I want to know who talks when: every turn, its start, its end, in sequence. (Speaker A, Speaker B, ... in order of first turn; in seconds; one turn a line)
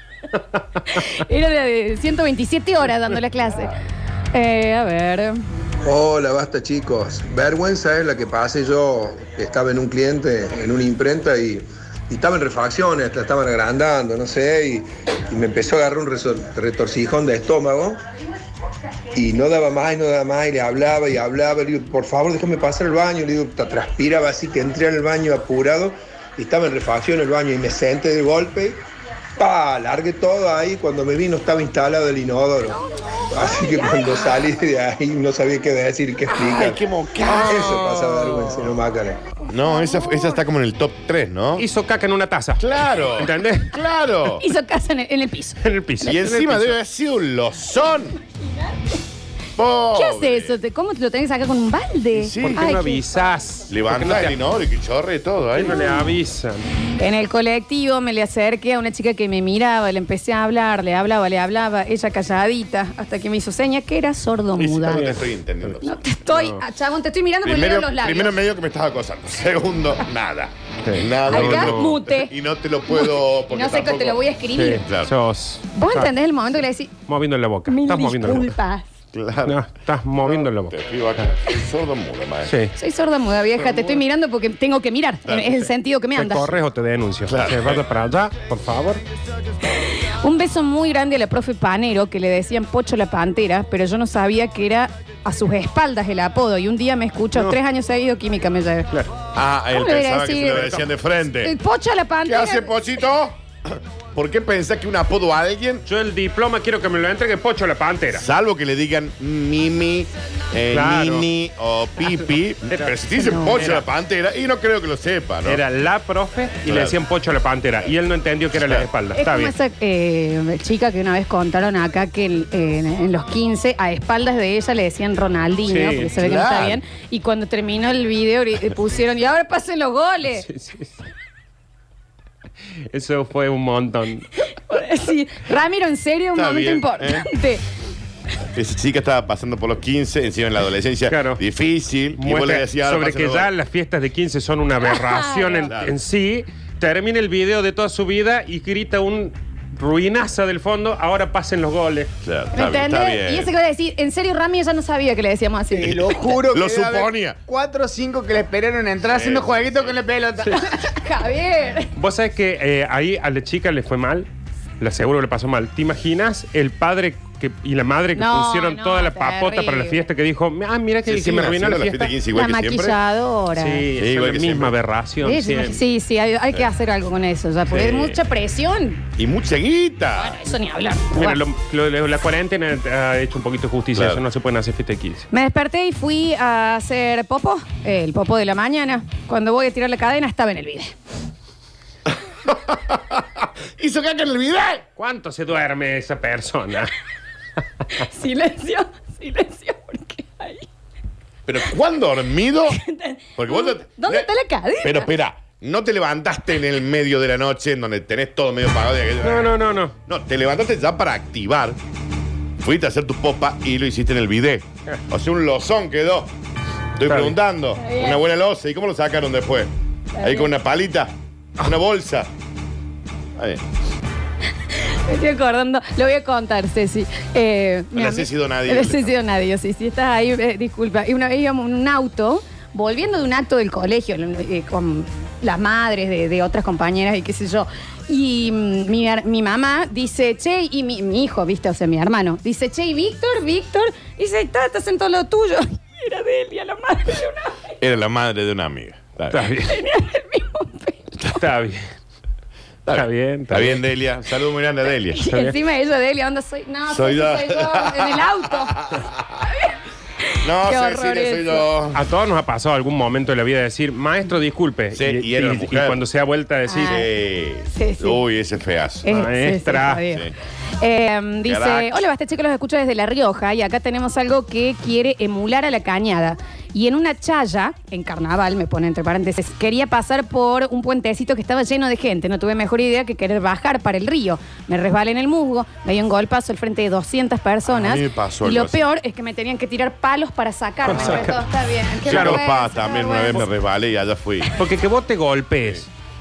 Speaker A: 0.9-3.7
Speaker A: 4.3-5.4
Speaker B: 5.8-18.0
Speaker B: 19.1-28.8
Speaker B: 29.4-32.8
Speaker A: 32.7-34.3
Speaker B: 33.3-39.3
Speaker C: 36.3-38.5
Speaker C: 39.5-41.6
Speaker A: 39.7-40.4
Speaker D: 41.6-42.6
Speaker C: 42.6-44.5
Speaker D: 43.2-43.7
Speaker A: 44.4-45.6
Speaker D: 45.6-46.8
Speaker C: 46.0-48.2
Speaker C: 49.6-50.6
Speaker A: 49.9-53.0
Speaker C: 52.1-52.7
Speaker D: 52.4-54.4
Speaker C: 53.7-55.8
Speaker D: 55.5-56.6
Speaker A: 57.0-65.1
Speaker C: 64.6-66.0
Speaker D: 64.9-65.8
Speaker A: 65.8-68.3
Speaker D: 66.3-66.6
Speaker C: 67.4-74.2
Speaker D: 70.8-72.0
Speaker A: 71.2-72.3
Speaker A: 72.9-74.8
Speaker D: 74.5-76.1
Speaker C: 74.8-75.1
Speaker A: 75.7-77.0
Speaker D: 77.0-78.5
Speaker A: 77.7-78.9
Speaker C: 79.1-79.6
Speaker D: 79.5-81.2
Speaker C: 80.2-82.5
Speaker D: 82.5-82.7
Speaker A: 82.8-86.5
Speaker C: 83.6-84.0
Speaker C: 85.2-85.7
Speaker D: 86.1-89.0
Speaker C: 87.3-87.8
Speaker A: 90.2-98.9
Speaker C: 99.3-101.5
Speaker A: 99.7-100.7
Speaker D: 100.5-100.8
Speaker A: 101.4-102.8
Speaker C: 102.2-103.3
Speaker C: 104.1-105.8
Speaker D: 105.9-108.2
Speaker C: 108.2-115.6
Speaker D: 110.7-111.2
Speaker D: 112.7-113.8
Speaker A: 113.1-113.7
Speaker D: 115.4-119.5
Speaker C: 116.6-117.0
Speaker C: 118.5-118.9
Speaker A: 119.1-130.4
Speaker D: 125.7-126.1
Speaker C: 126.1-126.8
Speaker D: 130.4-130.9
Speaker D: 132.9-134.3
Speaker A: 134.5-137.6
Speaker C: 136.3-137.3
Speaker C: 138.5-143.5
Speaker D: 141.1-141.4
Speaker D: 142.2-152.1
Speaker A: 144.8-145.7
Speaker C: 145.7-145.9
Speaker C: 152.2-153.5
Speaker A: 152.5-156.4
Speaker E: 155.7-160.9
Speaker C: 156.5-157.4
Speaker C: 159.0-160.0
Speaker A: 160.7-161.9
Speaker D: 161.9-164.3
Speaker D: 164.8-172.1
Speaker A: 168.1-170.0
Speaker C: 171.0-173.0
Speaker A: 172.3-173.9
Speaker D: 173.6-175.8
Speaker C: 173.9-174.8
Speaker A: 175.2-179.0
Speaker C: 177.7-178.2
Speaker C: 179.2-180.4
Speaker A: 180.1-181.4
Speaker D: 181.1-185.3
Speaker C: 183.9-184.2
Speaker A: 185.3-190.9
Speaker C: 192.4-193.2
Speaker C: 193.8-194.8
Speaker D: 195.0-196.9
Speaker A: 198.0-200.7
Speaker C: 201.4-202.8
Speaker A: 202.7-205.1
Speaker C: 203.3-204.3
Speaker C: 204.8-211.8
Speaker D: 209.2-209.9
Speaker C: 212.6-216.3
Speaker C: 217.0-222.3
Speaker D: 217.1-217.3
Speaker A: 217.8-218.2
Speaker A: 220.2-220.5
Speaker C: 223.4-223.6
Speaker A: 224.7-247.6
Speaker C: 227.9-229.1
Speaker C: 247.8-249.5
Speaker D: 249.3-249.8
Speaker A: 249.6-251.2
Speaker D: 251.3-251.9
Speaker C: 252.8-255.2
Speaker D: 252.9-253.8
Speaker A: 255.1-258.8
Speaker D: 255.3-255.5
Speaker C: 256.9-259.4
Speaker A: 260.3-261.6
Speaker C: 260.4-262.0
Speaker D: 261.9-267.0
Speaker C: 264.9-266.0
Speaker A: 266.7-267.1
Speaker C: 266.8-269.2
Speaker A: 267.7-268.2
Speaker A: 269.0-293.4
Speaker D: 269.1-270.0
Speaker C: 271.5-271.9
Speaker C: 287.7-288.9
Speaker D: 290.9-291.4
Speaker C: 292.0-294.5
Speaker D: 292.1-292.4
Speaker D: 294.5-295.9